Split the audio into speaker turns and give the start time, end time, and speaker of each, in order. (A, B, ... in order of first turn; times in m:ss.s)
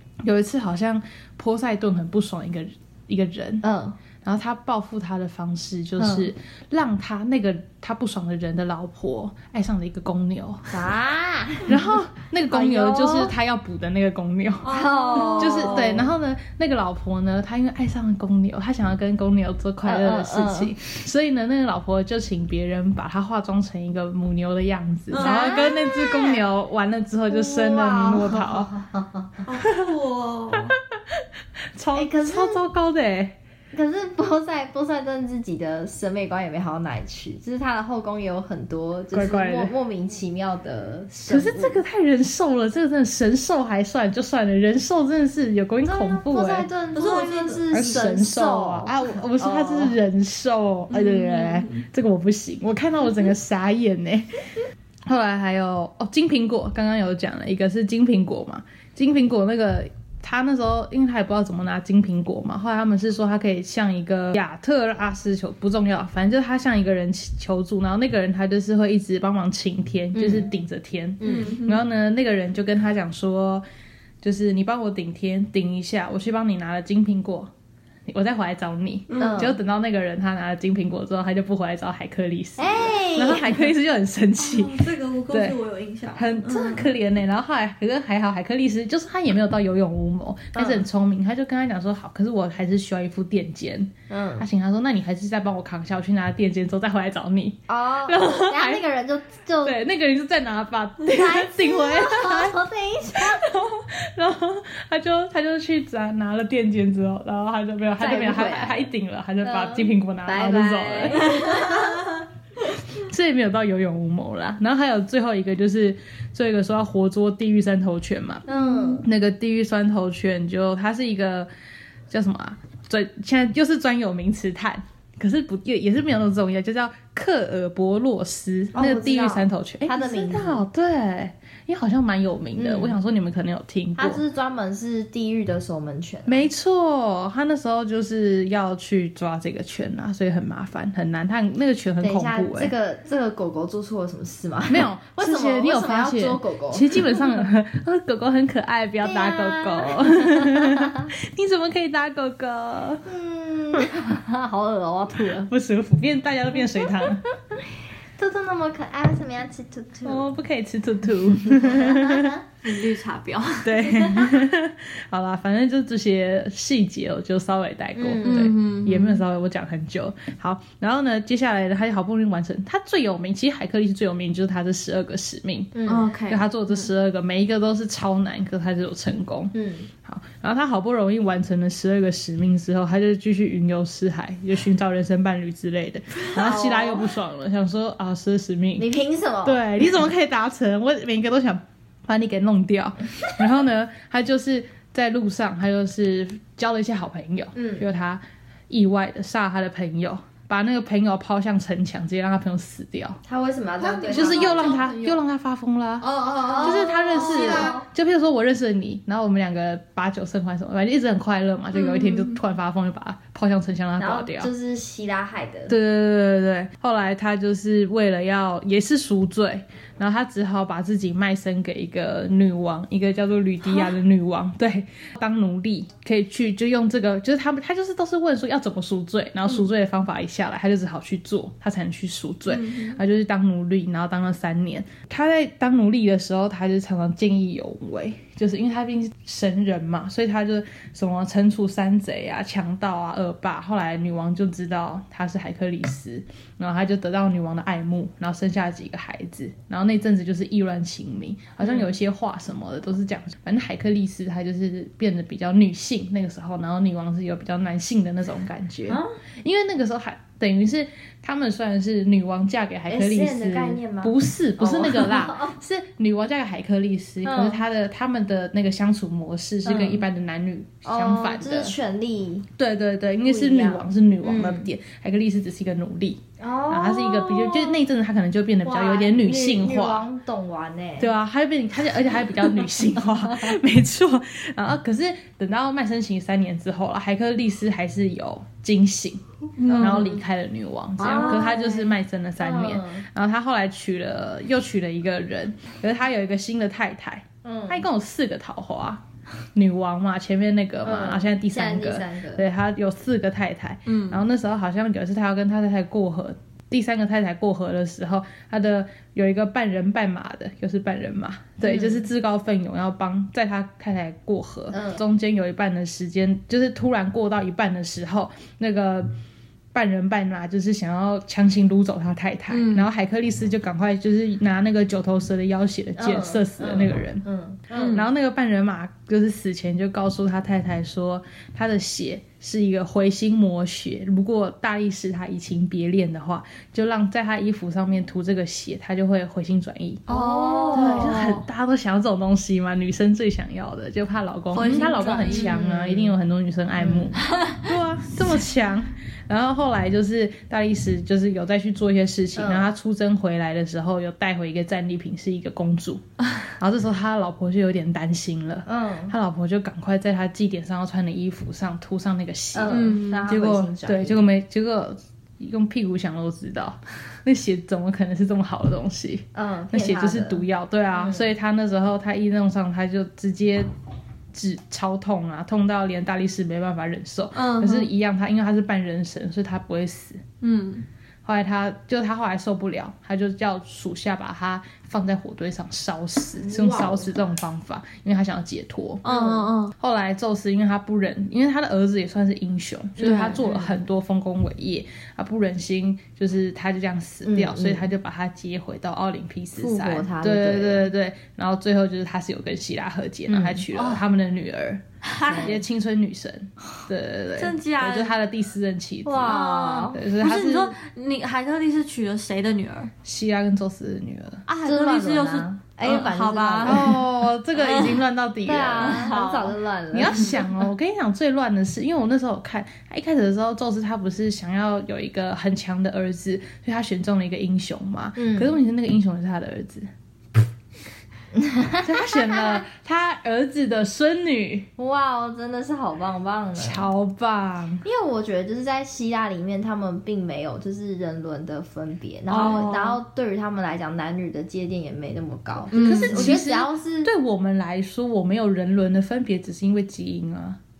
0:00.2-0:03.6 A
0:03.6-0:04.0 B
0:04.2-0:10.7 A
0:06.0-0:06.3 B
0:10.7-0:11.8 B
0:11.6-0:28.7 A
0:12.5-0:13.3 B
0:14.6-0:15.9 C
0:14.7-0:16.1 B
0:19.8-0:20.7 B
0:25.1-0:25.6 C
0:25.2-0:26.4 B
0:27.3-0:29.4 B
0:29.4-0:30.7 C
0:30.5-0:33.4 A
0:31.9-0:32.6 B
0:33.7-0:41.8 B
0:39.1-0:39.7 A
0:41.3-0:46.7 A
0:45.8-0:50.0 B
0:46.9-0:47.7 C
0:47.7-0:54.4 A
0:50.9-0:51.8 C
0:55.0-1:13.6 A
1:10.1-1:10.5 B
1:11.2-1:11.5 B
1:11.2-1:11.8 C
1:14.2-1:17.5 A
1:18.1-1:25.6 A
1:19.1-1:19.4 C
1:19.2-1:19.6 B
1:22.6-1:23.6 B
1:24.4-1:26.9 C
1:26.1-1:38.8 A
1:30.5-1:30.8 B
1:34.1-1:34.4 B
1:37.7-1:39.8 B
1:39.6-1:42.6 A
1:41.0-1:43.5 B
1:43.1-1:51.6 A
1:48.0-1:48.8 B
1:49.4-1:52.0 B
1:51.3-1:51.8 C
1:52.9-2:01.5 A
1:58.5-1:59.0 B
2:02.1-2:14.2 A
2:08.7-2:10.6 B
2:12.6-2:13.0 B
2:14.0-2:16.4 B
2:16.2-2:22.7 A
2:22.0-2:27.2 B
2:24.7-2:33.0 A
2:29.0-2:31.1 B
2:33.0-2:35.5 B
2:35.5-2:37.2 A
2:38.2-2:40.3 B
2:40.0-2:42.4 A
2:41.5-2:42.4 B
2:42.6-2:43.7 C
2:43.6-2:55.8 A
2:43.8-2:44.4 B
2:48.0-2:48.5 B
2:48.2-2:49.2 C
2:55.7-2:56.1 B
2:55.8-2:56.8 C
2:56.3-2:59.5 A
2:59.5-2:59.9 B
3:00.0-3:08.8 A
3:06.3-3:07.1 B
3:08.8-3:09.9 B
3:09.4-3:23.2 A
3:17.5-3:17.8 B
3:23.2-3:25.2 B
3:23.8-3:24.9 C
3:24.1-3:34.5 A
3:26.1-3:27.8 C
3:26.1-3:27.8 B
3:31.8-3:32.4 C
3:34.0-3:35.7 B
3:35.7-4:31.7 A
3:52.5-3:53.0 C
4:18.9-4:19.1 B
4:22.9-4:25.6 B
4:27.2-4:27.6 B
4:29.6-4:30.0 B
4:30.8-4:32.5 B
4:32.6-4:40.1 A
4:33.2-4:34.7 B
4:36.4-4:37.8 B
4:38.6-4:41.1 B
4:41.0-4:59.0 A
4:49.6-4:50.2 C
4:49.6-4:50.2 B
4:51.0-4:53.0 B
4:51.0-4:51.6 C
4:57.4-4:57.8 B
4:59.5-5:19.1 A
5:00.8-5:02.4 B
5:03.9-5:04.2 C
5:11.6-5:12.0 B
5:14.7-5:15.0 B
5:19.7-5:27.2 A
5:22.5-5:22.9 C
5:26.0-5:28.0 B
5:27.7-5:28.0 C
5:27.9-5:40.1 A
5:40.1-5:41.4 C
5:40.1-5:41.2 B
5:40.7-6:13.7 A
5:44.5-5:45.5 C
5:45.2-5:46.1 B
5:46.8-5:47.1 B
5:47.2-5:47.7 C
5:52.4-5:52.7 B
5:58.6-5:59.1 B
6:02.5-6:04.2 B
6:02.7-6:03.3 C
6:09.3-6:10.4 B
6:11.0-6:11.3 B
6:14.3-6:20.2 A
6:17.3-6:17.9 C
6:20.4-6:20.8 C
6:21.2-6:29.0 A
6:26.4-6:27.1 B
6:29.0-6:29.7 C
6:29.1-6:29.5 B
6:29.8-6:50.8 A
6:33.0-6:33.4 C
6:33.0-6:33.8 B
6:37.2-6:37.9 B
6:39.6-6:40.9 B
6:43.3-6:43.6 B
6:43.7-6:44.0 C
6:45.0-6:45.6 C
6:45.2-6:45.6 B
6:47.4-6:48.2 C
6:49.0-6:50.0 B
6:49.2-6:52.9 C
6:53.0-6:54.4 A
6:54.5-6:56.9 C
6:54.6-6:57.0 B
6:56.6-6:59.1 A
6:57.5-6:58.0 C
6:58.4-7:00.4 B
6:58.8-6:59.6 C
6:59.9-7:09.9 A
7:00.1-7:00.4 C
7:08.2-7:08.6 B
7:11.3-7:12.6 B
7:11.8-7:14.7 A
7:14.8-7:16.9 B
7:16.6-7:17.8 A
7:17.8-7:27.1 B
7:22.3-7:23.0 C
7:25.7-7:26.4 C
7:25.7-7:30.6 A